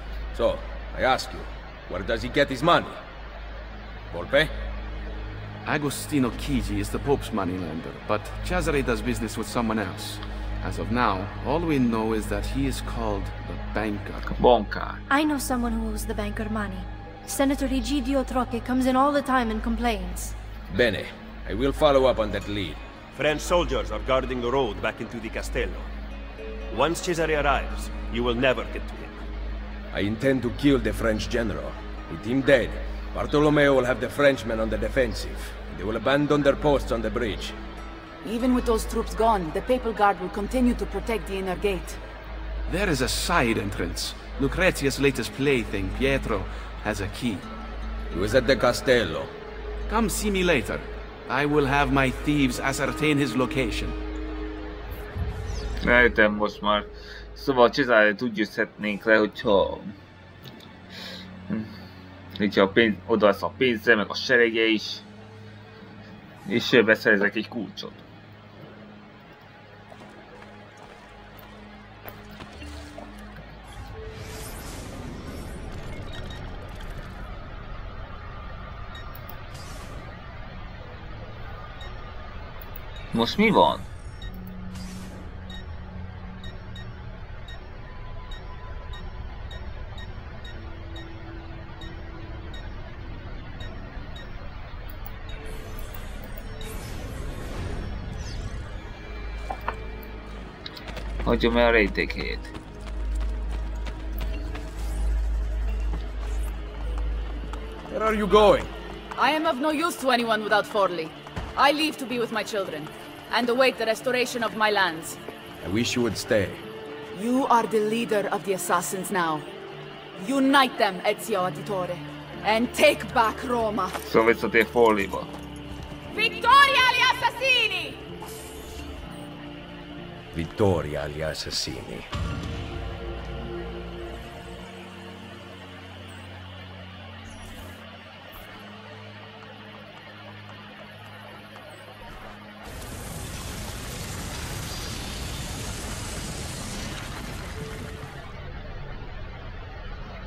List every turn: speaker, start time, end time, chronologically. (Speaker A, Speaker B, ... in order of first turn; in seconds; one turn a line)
Speaker A: 0.3-3.0
Speaker A: 4.1-4.5
Speaker B: 5.6-14.3
Speaker C: 14.3-15.0
Speaker D: 15.1-20.3
Speaker A: 20.7-22.8
Speaker E: 23.1-25.9
Speaker E: 26.7-29.2
Speaker A: 29.9-37.6
Speaker F: 38.2-42.0
Speaker B: 42.7-47.5
Speaker A: 48.1-49.3
Speaker B: 49.9-54.0
Speaker C: 55.8-59.9
Speaker C: 62.4-65.0
Speaker C: 66.5-68.0
Speaker C: 83.1-83.8
Speaker C: 101.2-102.5
Speaker A: 107.9-108.7
Speaker F: 109.2-115.2
Speaker A: 115.6-116.6
Speaker F: 117.1-119.5
Speaker F: 120.2-123.9
Speaker C: 124.0-125.3
Speaker F: 126.1-128.0
Speaker A: 130.3-132.1